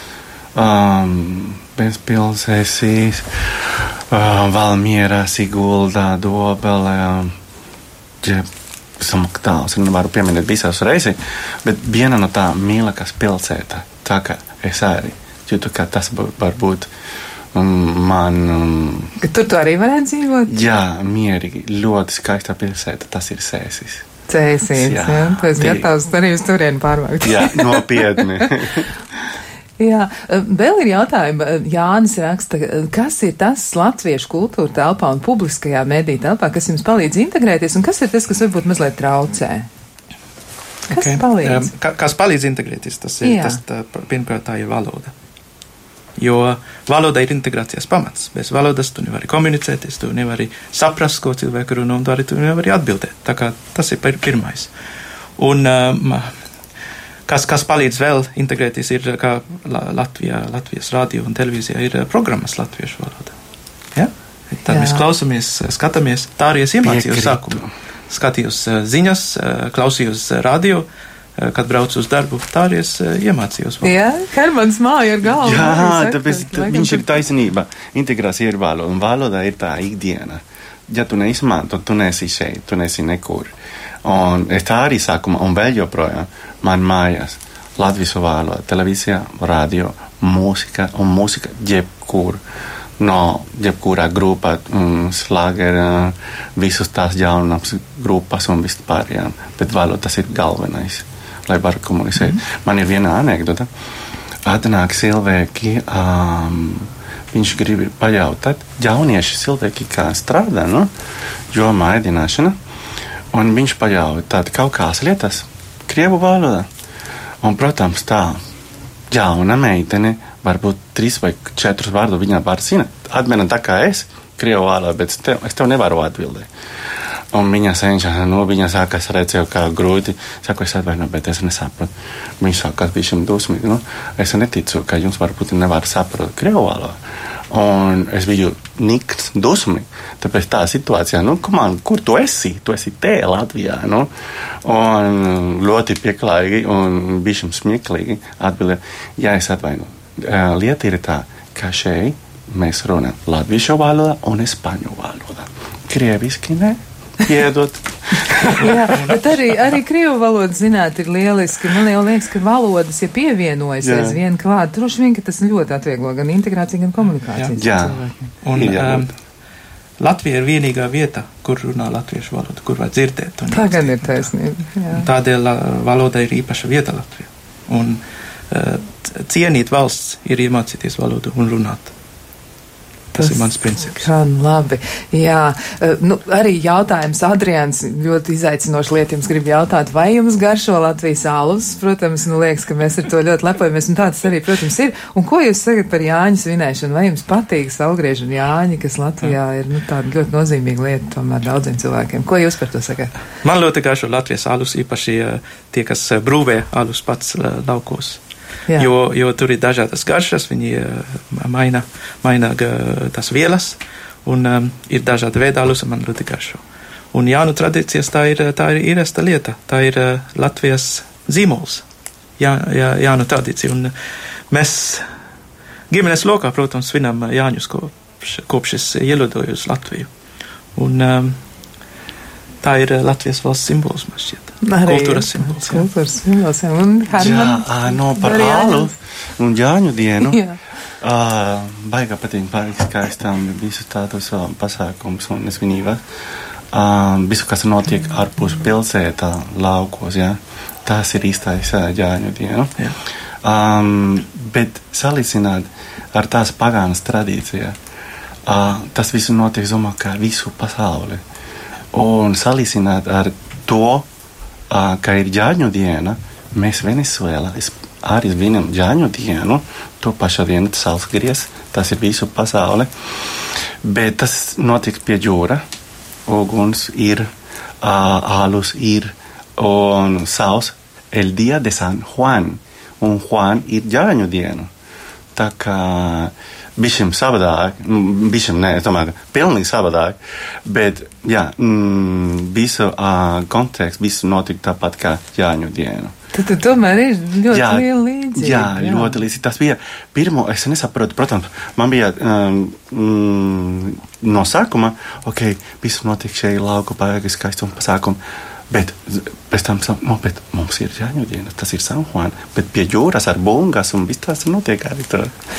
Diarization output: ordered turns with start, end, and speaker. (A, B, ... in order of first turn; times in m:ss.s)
0:00.5-0:07.3 A
0:08.2-0:08.5 A
0:09.0-0:16.9 A
0:17.5-0:19.1 A
0:19.2-0:20.5 B
0:20.5-0:24.0 A
0:24.3-0:28.4 B
0:24.7-0:25.9 A
0:27.2-0:28.9 A
0:29.8-0:39.7 B
0:40.9-0:45.1 C
0:40.9-0:41.7 B
0:43.2-0:43.6 B
0:46.2-0:54.7 C
0:55.4-0:56.3 C
0:57.3-1:03.3 C
1:03.9-1:10.8 C
1:04.7-1:05.0 B
1:06.8-1:07.7 A
1:11.4-1:13.9 C
1:13.8-1:17.0 B
1:15.4-1:23.5 A
1:24.0-1:32.4 A
1:33.0-1:43.7 A
1:44.4-1:50.9 A
1:51.5-1:52.5 A
1:53.3-1:56.7 A
1:57.4-1:58.4 A
1:59.1-2:06.5 A
2:07.3-2:17.0 A
2:17.5-2:24.1 A
2:24.6-2:38.8 A
2:38.4-2:39.6 C
2:38.6-2:48.3 B
2:43.8-2:44.2 A
2:47.6-2:48.0 A
2:48.4-2:49.1 C
2:48.5-2:49.1 A
2:50.0-2:54.3 C
2:53.5-2:55.0 B
2:54.9-3:01.9 C
3:03.1-3:23.1 B
3:03.2-3:04.1 C
3:23.4-3:28.2 C
3:28.8-3:36.6 C
3:37.1-3:41.8 C
3:42.4-3:43.9 C
3:44.5-3:45.0 C
3:45.9-3:50.1 C
3:50.8-3:51.4 C
3:52.6-3:55.9 C
3:54.6-3:58.9 B
3:57.2-4:00.4 A
4:00.2-4:00.6 B
4:01.0-4:06.0 A
4:06.7-4:12.8 A
4:13.4-4:17.7 A
4:18.4-4:21.2 A
4:21.9-4:24.1 A
4:24.7-4:35.6 A
4:36.3-4:37.3 A
4:37.8-4:44.7 A
4:45.3-4:56.1 A
4:56.3-4:59.2 B
4:57.5-5:15.3 A